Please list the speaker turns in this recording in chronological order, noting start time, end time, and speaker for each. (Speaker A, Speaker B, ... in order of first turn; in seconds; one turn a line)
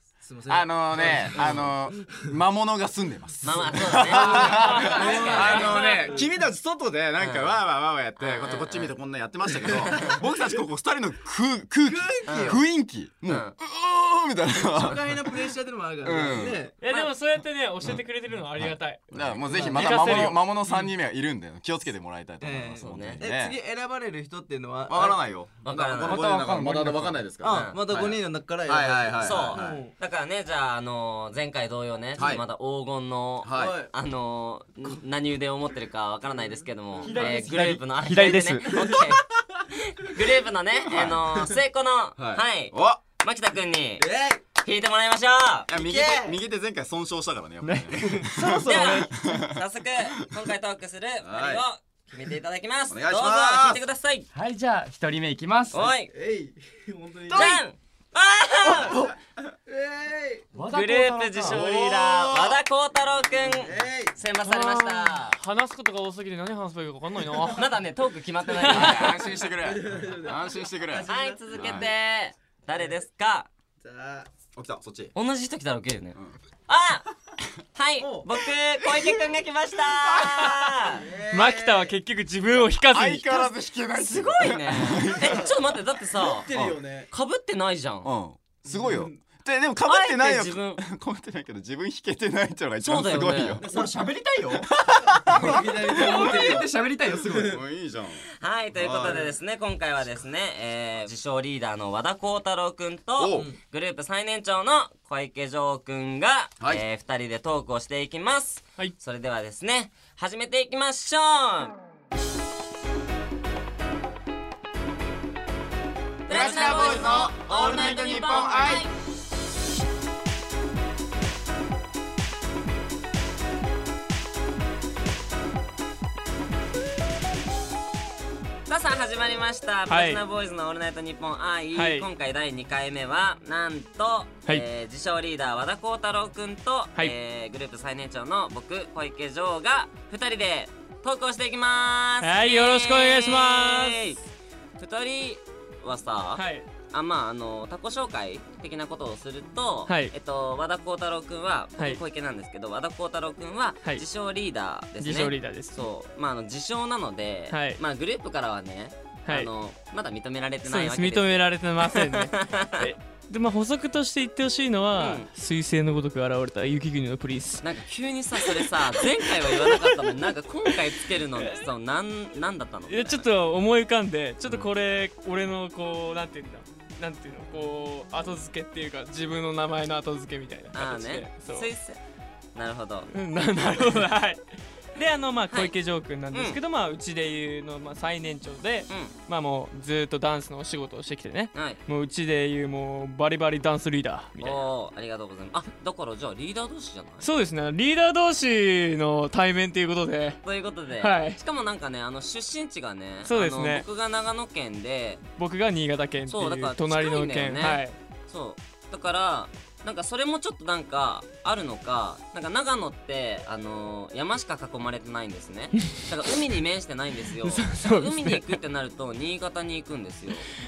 Speaker A: 0.2-2.1
Speaker B: 0.5-16.6
Speaker C: 1.3-1.7
Speaker C: 3.4-5.9
Speaker A: 3.5-6.3
Speaker D: 4.4-6.2
Speaker C: 7.2-7.6
Speaker C: 8.2-8.9
Speaker C: 9.7-10.1
Speaker A: 9.8-10.2
Speaker A: 11.8-12.6
Speaker C: 12.3-12.6
Speaker C: 13.3-13.5
Speaker A: 14.6-16.8
Speaker D: 16.8-19.1
Speaker B: 18.5-23.6
Speaker A: 19.2-20.3
Speaker D: 19.7-20.7
Speaker A: 22.4-25.2
Speaker C: 22.8-23.2
Speaker B: 24.9-29.7
Speaker C: 25.6-26.7
Speaker A: 26.1-26.4
Speaker E: 26.4-26.9
Speaker A: 27.4-29.9
Speaker C: 27.4-27.9
Speaker C: 29.2-44.1
Speaker B: 32.2-32.4
Speaker B: 33.4-33.8
Speaker A: 33.5-33.9
Speaker A: 37.0-37.8
Speaker E: 37.0-39.1
Speaker A: 38.7-39.1
Speaker B: 40.9-41.3
Speaker B: 42.2-43.0
Speaker A: 44.0-44.4
Speaker C: 44.6-45.7
Speaker B: 45.7-50.5
Speaker A: 45.7-46.4
Speaker E: 47.6-48.7
Speaker D: 48.2-49.1
Speaker C: 48.6-54.3
Speaker B: 51.2-51.6
Speaker B: 52.9-53.8
Speaker E: 54.3-55.9
Speaker C: 55.7-56.1
Speaker A: 56.1-57.6
Speaker C: 57.3-59.0
Speaker A: 58.8-59.1
Speaker A: 59.7-60.5
Speaker E: 60.5-61.6
Speaker C: 60.7-65.4
Speaker B: 61.4-62.6
Speaker A: 63.4-64.1
Speaker D: 64.4-67.7
Speaker C: 67.4-69.3
Speaker D: 68.5-69.1
Speaker B: 68.6-71.9
Speaker A: 69.6-71.8
Speaker C: 71.0-73.5
Speaker A: 73.8-74.3
Speaker B: 74.5-75.1
Speaker C: 75.2-76.2
Speaker C: 76.7-77.1
Speaker C: 77.7-81.0
Speaker A: 78.0-78.3
Speaker B: 80.2-80.5
Speaker A: 80.9-81.9
Speaker D: 81.3-83.5
Speaker B: 82.8-85.5
Speaker C: 83.9-86.5
Speaker A: 85.1-85.5
Speaker A: 86.2-87.1
Speaker B: 86.5-86.8
Speaker C: 87.1-88.1
Speaker B: 88.0-94.0
Speaker A: 88.7-89.1
Speaker C: 89.8-90.8
Speaker C: 92.8-93.6
Speaker A: 93.6-94.0
Speaker E: 93.8-94.5
Speaker B: 94.5-99.3
Speaker A: 95.1-97.6
Speaker E: 95.4-97.4
Speaker C: 98.4-111.8
Speaker A: 99.0-99.3
Speaker B: 103.2-103.5
Speaker C: 116.2-118.9
Speaker B: 116.3-118.9
Speaker C: 128.7-144.2
Speaker D: 129.9-130.2
Speaker D: 131.7-132.1
Speaker D: 142.2-144.0
Speaker C: 144.8-162.9
Speaker D: 146.3-146.7
Speaker D: 149.9-150.1
Speaker D: 155.0-155.8
Speaker D: 157.5-157.8
Speaker D: 160.6-167.7
Speaker C: 164.9-165.3
Speaker C: 167.6-173.2
Speaker D: 168.4-171.7
Speaker D: 172.9-181.7
Speaker C: 180.7-182.0
Speaker C: 182.6-183.1
Speaker D: 183.1-184.4
Speaker D: 184.9-194.6
Speaker C: 186.3-186.6
Speaker C: 188.9-189.1
Speaker C: 191.5-191.8
Speaker C: 194.4-197.3
Speaker D: 197.2-200.4
Speaker C: 200.4-205.2
Speaker D: 200.9-201.4
Speaker D: 203.2-203.8
Speaker D: 205.4-207.9
Speaker C: 206.3-220.5
Speaker D: 217.4-218.6